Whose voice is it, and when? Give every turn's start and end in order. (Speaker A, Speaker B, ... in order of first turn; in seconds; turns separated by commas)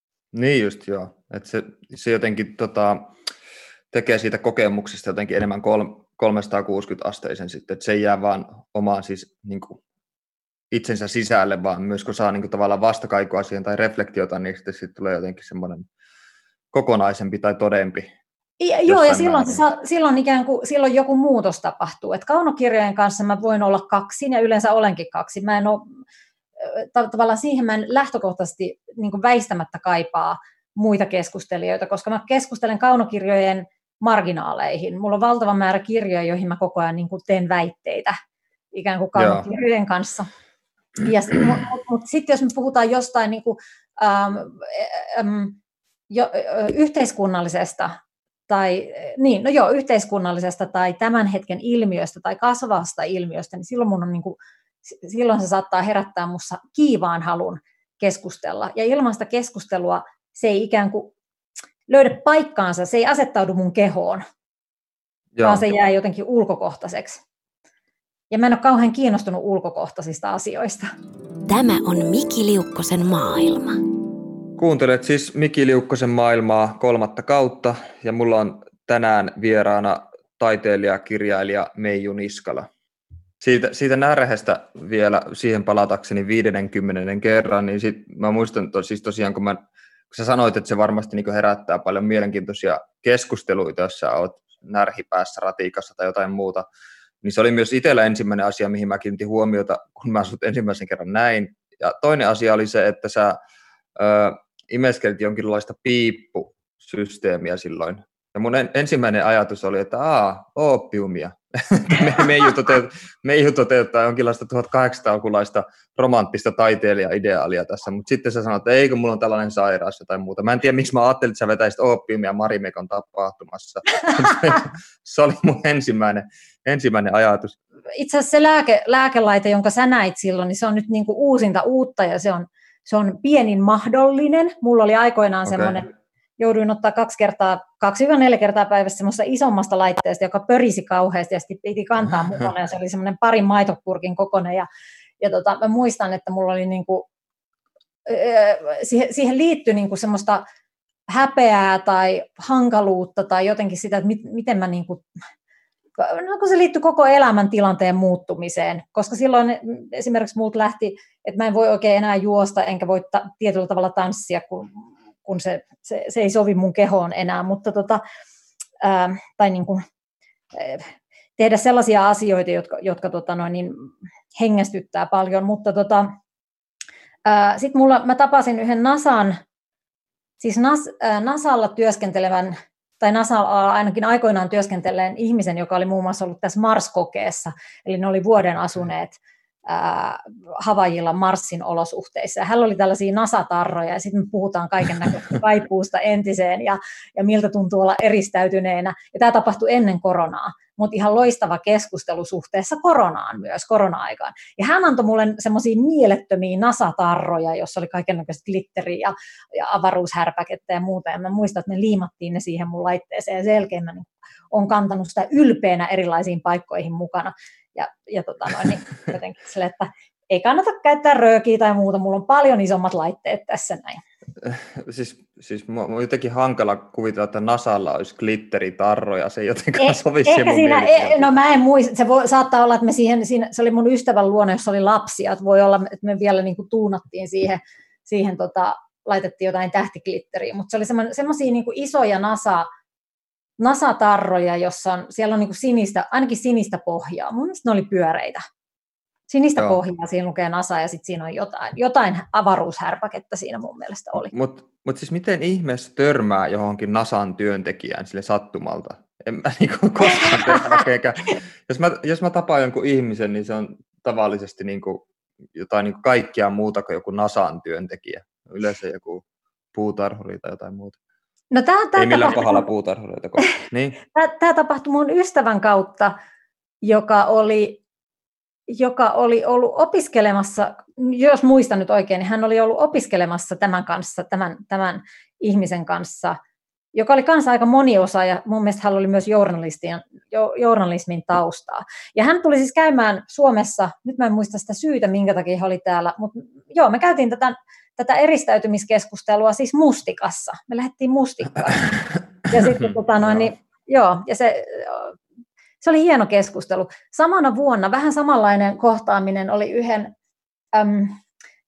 Speaker A: 0.3-3.1, Speaker A: 3.9-9.8, Speaker A: 10.7-15.9, Speaker A: 16.7-18.1, Speaker B: 18.6-25.9, Speaker A: 18.9-19.6, Speaker B: 26.6-38.1, Speaker B: 38.7-40.3, Speaker A: 39.1-39.4, Speaker B: 41.0-45.6, Speaker B: 46.1-48.0, Speaker B: 48.5-61.1, Speaker B: 61.9-64.2, Speaker A: 65.3-65.6, Speaker B: 65.4-67.2, Speaker B: 68.3-70.9, Speaker C: 71.5-73.8, Speaker A: 74.6-82.7, Speaker A: 83.4-89.6, Speaker A: 90.1-96.7, Speaker A: 97.2-103.4, Speaker A: 104.0-127.5, Speaker B: 127.9-144.7, Speaker A: 135.5-135.7, Speaker B: 145.2-147.1, Speaker B: 148.1-150.4, Speaker B: 151.1-155.0, Speaker B: 156.0-168.0, Speaker B: 168.8-169.8, Speaker B: 170.5-170.8, Speaker B: 171.4-176.1, Speaker B: 177.2-179.4, Speaker B: 180.4-189.2, Speaker B: 189.7-224.0, Speaker A: 224.4-231.3, Speaker B: 229.8-242.7, Speaker B: 243.6-248.4, Speaker B: 249.3-254.3, Speaker A: 254.2-271.0, Speaker B: 271.5-272.6, Speaker A: 272.0-274.0, Speaker B: 274.1-276.1, Speaker B: 276.8-277.8, Speaker B: 278.7-286.4, Speaker B: 286.9-305.1, Speaker A: 302.8-303.4, Speaker B: 305.8-310.1, Speaker B: 310.7-311.2